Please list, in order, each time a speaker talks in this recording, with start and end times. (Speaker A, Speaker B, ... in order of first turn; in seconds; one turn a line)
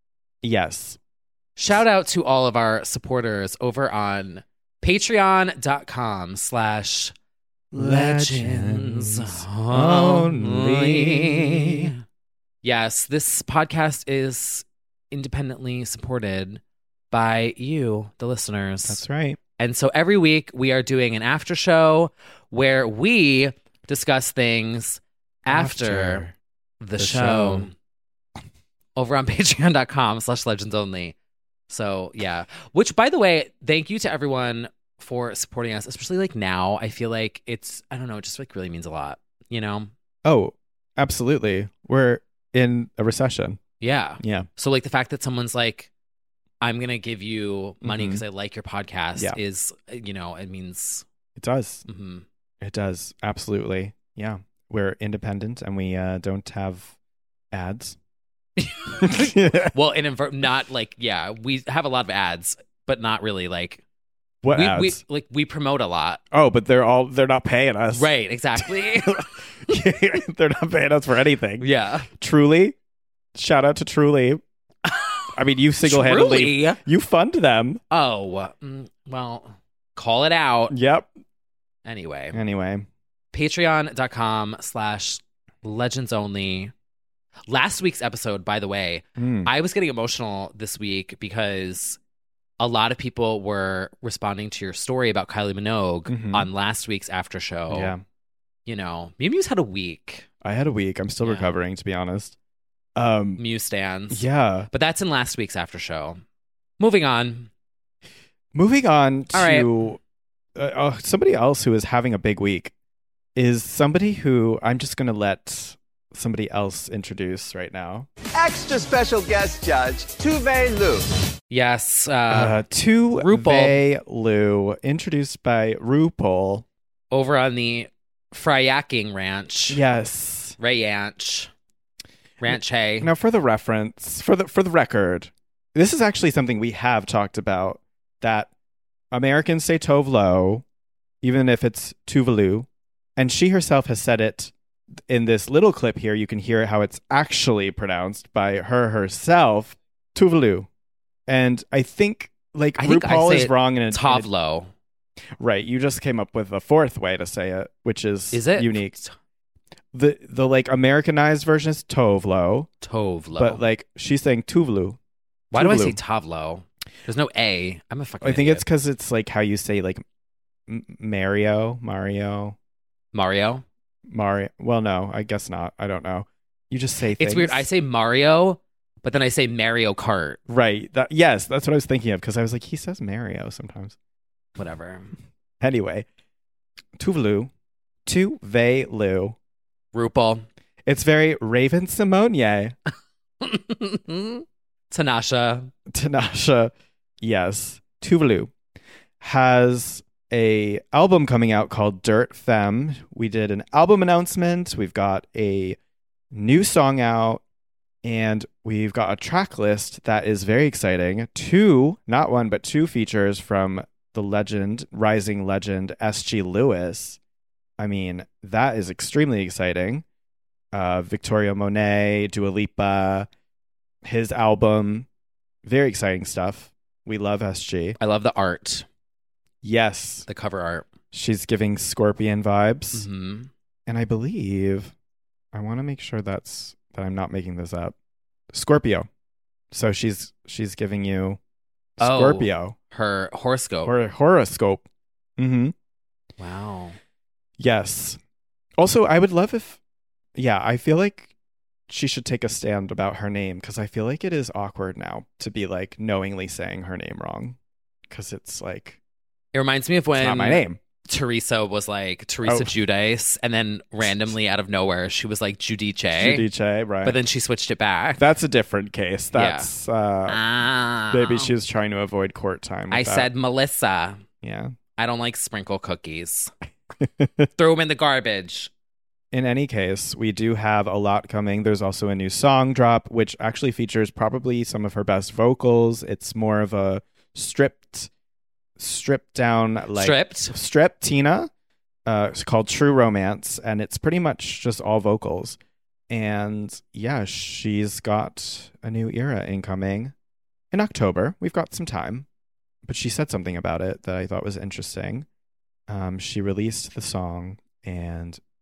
Speaker A: 0.4-1.0
Speaker B: 1.6-7.1
Speaker A: 7.7-11.9
Speaker B: 7.7-11.9
Speaker B: 12.6-19.0
Speaker A: 18.9-19.4
Speaker B: 19.6-26.3
Speaker A: 25.5-26.3
Speaker B: 26.8-27.7
Speaker A: 27.0-27.7
Speaker B: 28.9-31.1
Speaker B: 31.7-39.9
Speaker A: 40.2-43.6
Speaker B: 43.8-45.9
Speaker A: 44.2-44.5
Speaker B: 46.6-51.0
Speaker A: 47.8-48.2
Speaker A: 51.4-51.8
Speaker B: 51.9-52.2
Speaker A: 52.6-56.9
Speaker A: 57.5-58.0
Speaker B: 58.6-63.8
Speaker A: 59.0-59.7
Speaker A: 64.4-65.0
Speaker B: 64.5-66.2
Speaker A: 66.3-71.7
Speaker B: 67.9-69.2
Speaker B: 71.6-72.1
Speaker A: 72.2-72.8
Speaker A: 73.3-74.4
Speaker B: 74.8-75.2
Speaker A: 75.3-77.8
Speaker B: 75.8-76.8
Speaker B: 77.9-80.7
Speaker A: 80.7-81.1
Speaker B: 81.8-82.4
Speaker A: 82.3-82.9
Speaker B: 83.3-86.7
Speaker B: 87.5-92.0
Speaker A: 89.2-89.5
Speaker B: 92.6-97.9
Speaker A: 96.1-96.5
Speaker A: 97.7-98.0
Speaker B: 98.7-100.3
Speaker A: 100.4-102.3
Speaker B: 101.2-101.5
Speaker A: 103.0-103.4
Speaker B: 103.4-106.2
Speaker A: 104.1-104.7
Speaker B: 106.8-107.5
Speaker A: 108.5-110.0
Speaker B: 109.3-109.7
Speaker A: 110.5-112.7
Speaker A: 113.3-118.1
Speaker C: 118.3-121.1
Speaker B: 121.5-122.6
Speaker A: 122.3-126.6
Speaker B: 123.1-123.8
Speaker B: 127.1-129.8
Speaker A: 129.7-130.6
Speaker B: 130.6-131.5
Speaker B: 132.4-133.1
Speaker A: 132.5-138.5
Speaker A: 139.1-140.6
Speaker A: 141.2-144.5
Speaker A: 145.1-150.7
Speaker A: 151.3-154.3
Speaker B: 152.8-154.7
Speaker A: 155.4-159.0
Speaker B: 158.3-159.1
Speaker A: 159.9-162.7
Speaker B: 162.8-163.6
Speaker A: 163.4-165.0
Speaker A: 165.5-166.0
Speaker B: 165.5-168.6
Speaker A: 168.2-170.0
Speaker A: 170.7-172.6
Speaker B: 173.1-173.6
Speaker A: 174.1-177.6
Speaker B: 177.2-180.4
Speaker A: 180.5-183.9
Speaker B: 184.6-185.1
Speaker A: 185.6-186.0
Speaker A: 187.0-187.5
Speaker A: 188.1-189.3
Speaker B: 189.9-190.5
Speaker A: 190.8-192.7
Speaker B: 193.4-195.7
Speaker A: 195.9-198.5
Speaker A: 199.2-205.8
Speaker A: 206.3-207.4
Speaker A: 208.0-217.2
Speaker A: 217.8-220.0
Speaker A: 220.7-223.3
Speaker A: 224.0-225.1
Speaker A: 225.6-228.0
Speaker B: 228.0-228.8
Speaker A: 229.6-230.3
Speaker B: 230.3-230.9
Speaker A: 231.1-233.1
Speaker B: 232.9-233.5
Speaker A: 233.9-234.9
Speaker A: 235.5-237.9
Speaker A: 238.5-239.1
Speaker A: 239.7-241.4
Speaker A: 242.0-242.8
Speaker B: 242.0-243.9
Speaker A: 243.8-244.8
Speaker A: 245.4-245.7
Speaker B: 246.4-247.0
Speaker A: 247.6-248.2
Speaker A: 248.8-249.8
Speaker A: 250.3-251.3
Speaker A: 251.9-257.6
Speaker A: 258.1-259.0
Speaker B: 259.5-266.4
Speaker A: 260.1-260.8
Speaker A: 262.4-262.7
Speaker A: 266.1-267.2
Speaker B: 267.0-268.2
Speaker A: 268.1-270.4
Speaker B: 269.3-269.7
Speaker B: 270.3-271.5
Speaker A: 271.1-273.3
Speaker B: 272.9-274.2
Speaker A: 274.4-274.7
Speaker B: 275.0-276.5
Speaker A: 277.0-277.5
Speaker B: 277.6-278.7
Speaker A: 279.3-288.1
Speaker A: 288.8-291.5
Speaker B: 289.9-290.5
Speaker A: 292.1-295.6
Speaker A: 296.1-300.1
Speaker A: 300.7-302.2
Speaker A: 302.9-305.2
Speaker A: 305.9-308.4